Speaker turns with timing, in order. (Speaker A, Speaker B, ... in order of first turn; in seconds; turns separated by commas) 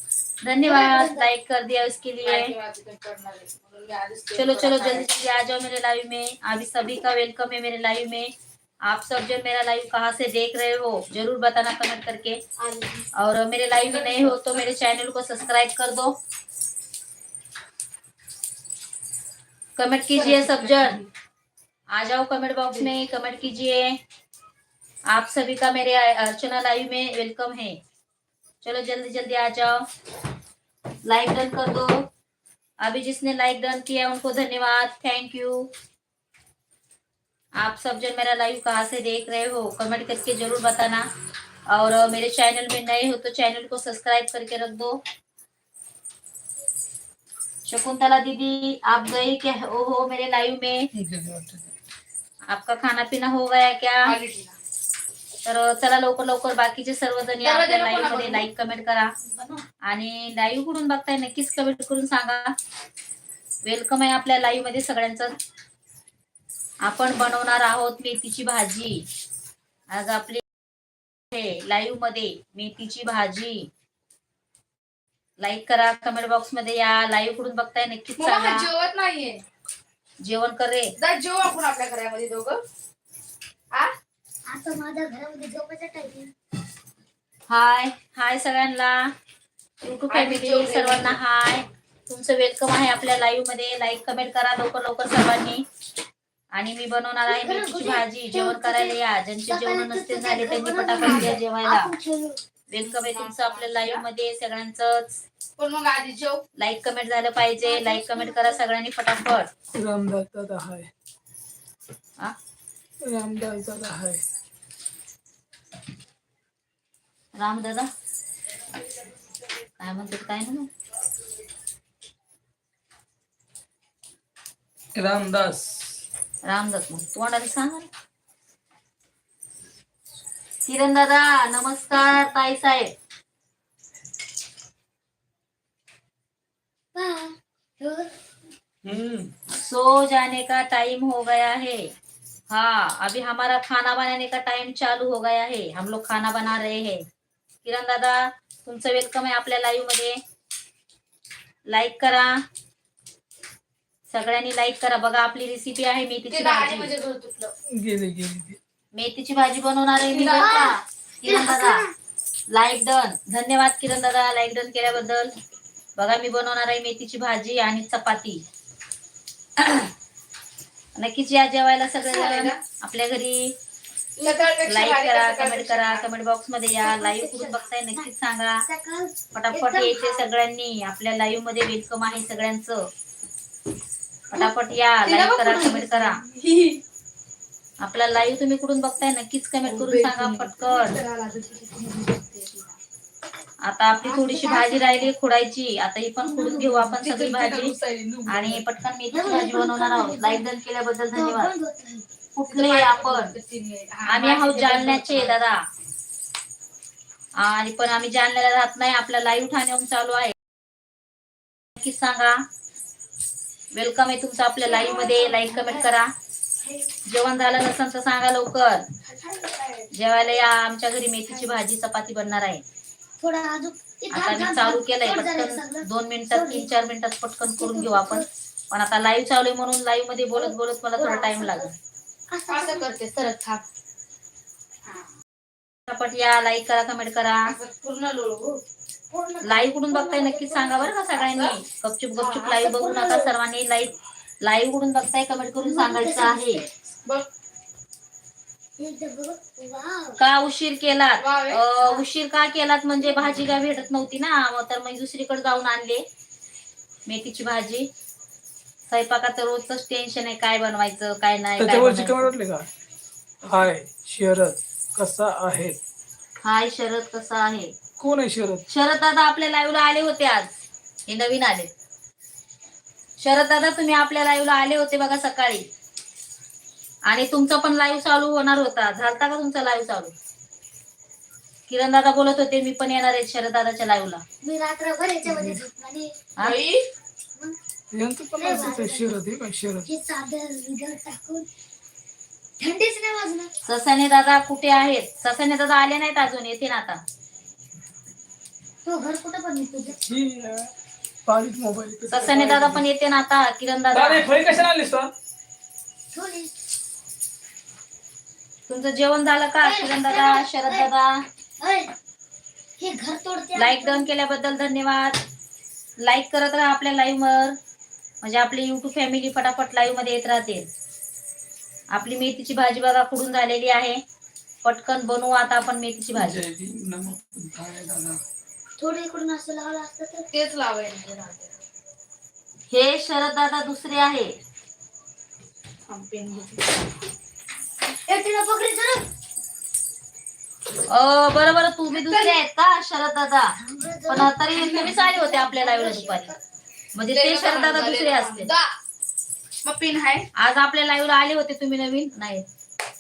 Speaker A: 0.4-2.5, Speaker B: 0.7-1.3, Speaker C: 2.2-5.1, Speaker A: 4.4-8.3, Speaker A: 8.9-12.4, Speaker C: 12.6-13.1, Speaker A: 13.2-16.1, Speaker C: 13.9-14.7, Speaker A: 19.8-21.0, Speaker C: 20.1-21.1, Speaker A: 21.9-24.0, Speaker A: 25.1-27.8, Speaker A: 28.6-29.8, Speaker A: 31.1-32.0, Speaker A: 32.8-35.7, Speaker A: 37.6-41.1, Speaker A: 41.7-45.0, Speaker A: 47.7-50.9, Speaker D: 50.9-51.7, Speaker A: 52.5-54.1, Speaker C: 54.1-54.6, Speaker A: 55.5-59.1, Speaker C: 57.4-58.5, Speaker A: 59.9-62.5, Speaker A: 63.7-65.3, Speaker A: 66.8-69.0, Speaker A: 69.9-70.4, Speaker A: 71.3-73.7, Speaker A: 75.4-78.7, Speaker C: 78.2-79.4, Speaker A: 80.2-80.9, Speaker C: 81.0-82.6, Speaker B: 84.5-86.3, Speaker A: 87.5-89.1, Speaker A: 89.8-95.6, Speaker C: 90.1-91.2, Speaker A: 96.5-101.9, Speaker B: 97.3-99.0, Speaker B: 99.5-102.4, Speaker C: 101.0-101.3, Speaker A: 102.7-105.2, Speaker C: 102.8-104.0, Speaker C: 105.6-106.4, Speaker A: 106.6-109.5, Speaker B: 107.6-108.6, Speaker D: 109.8-110.9, Speaker D: 113.0-114.2, Speaker A: 117.4-117.9, Speaker A: 119.8-120.7, Speaker D: 125.0-126.0, Speaker A: 126.4-127.9, Speaker A: 130.7-132.9, Speaker B: 136.9-138.1, Speaker D: 138.8-139.3, Speaker A: 139.5-141.9, Speaker A: 142.5-147.0, Speaker A: 147.7-150.2, Speaker A: 151.7-152.4, Speaker A: 154.1-156.9, Speaker C: 156.3-157.5, Speaker D: 157.8-158.6, Speaker A: 158.9-161.8, Speaker C: 160.1-160.7, Speaker B: 160.3-161.9, Speaker A: 162.5-165.3, Speaker A: 166.0-168.4, Speaker A: 169.6-169.9, Speaker A: 171.0-173.5, Speaker C: 172.0-172.6, Speaker C: 174.2-176.1, Speaker A: 174.7-178.6, Speaker B: 176.8-178.1, Speaker B: 178.6-180.2, Speaker A: 179.3-182.8, Speaker A: 184.3-186.2, Speaker C: 185.1-186.8, Speaker A: 187.8-191.0, Speaker C: 189.6-192.8, Speaker A: 193.6-197.7, Speaker B: 194.0-195.1, Speaker C: 196.2-198.6, Speaker A: 198.3-201.5, Speaker B: 199.1-200.5, Speaker B: 201.1-202.1, Speaker A: 202.4-203.3, Speaker C: 202.5-205.4, Speaker A: 204.1-205.6, Speaker A: 207.4-210.3, Speaker A: 211.8-212.4, Speaker A: 213.7-216.1, Speaker B: 214.6-215.9, Speaker A: 217.1-218.8, Speaker C: 219.1-219.9, Speaker A: 219.9-222.6, Speaker B: 223.2-226.7, Speaker A: 224.1-231.7, Speaker B: 227.6-228.3, Speaker B: 230.4-231.7, Speaker B: 232.3-232.9, Speaker C: 232.5-233.6, Speaker A: 235.9-237.5, Speaker C: 237.5-238.6, Speaker B: 239.1-241.1, Speaker A: 239.4-246.6, Speaker C: 241.1-241.6, Speaker B: 242.3-243.3, Speaker B: 245.6-246.7, Speaker B: 248.8-250.2, Speaker A: 250.2-256.0, Speaker C: 251.2-251.6, Speaker B: 251.8-252.0, Speaker B: 253.0-253.6, Speaker A: 257.1-257.9, Speaker A: 258.9-262.3, Speaker D: 261.6-262.7, Speaker D: 263.5-265.8, Speaker A: 266.4-267.7, Speaker D: 268.0-268.6, Speaker A: 268.7-270.5, Speaker A: 271.1-271.7, Speaker A: 273.2-275.6, Speaker A: 277.1-280.1, Speaker A: 281.7-284.2, Speaker B: 284.4-286.3, Speaker D: 285.3-285.6, Speaker C: 286.4-286.9, Speaker D: 287.9-289.9, Speaker B: 288.4-289.2, Speaker B: 289.9-291.5, Speaker B: 292.6-293.5, Speaker A: 293.7-297.0, Speaker B: 298.9-300.0, Speaker D: 300.1-300.7, Speaker D: 301.3-302.8, Speaker A: 302.1-304.3, Speaker D: 303.9-305.1, Speaker B: 306.1-306.6, Speaker A: 308.7-311.1, Speaker B: 309.6-310.9, Speaker B: 311.6-311.9, Speaker B: 312.8-314.1, Speaker A: 313.6-315.2, Speaker A: 316.0-317.6, Speaker A: 318.2-320.7, Speaker A: 321.9-324.0, Speaker A: 324.6-326.4, Speaker D: 326.1-328.2, Speaker B: 328.8-330.3, Speaker C: 330.3-331.6, Speaker A: 332.7-334.3, Speaker C: 335.9-336.8, Speaker B: 338.1-339.1, Speaker A: 340.9-343.5, Speaker C: 341.9-342.4, Speaker B: 343.6-346.3, Speaker A: 344.1-346.3, Speaker A: 346.9-348.5, Speaker C: 347.1-348.7, Speaker C: 349.6-350.3, Speaker A: 350.4-352.5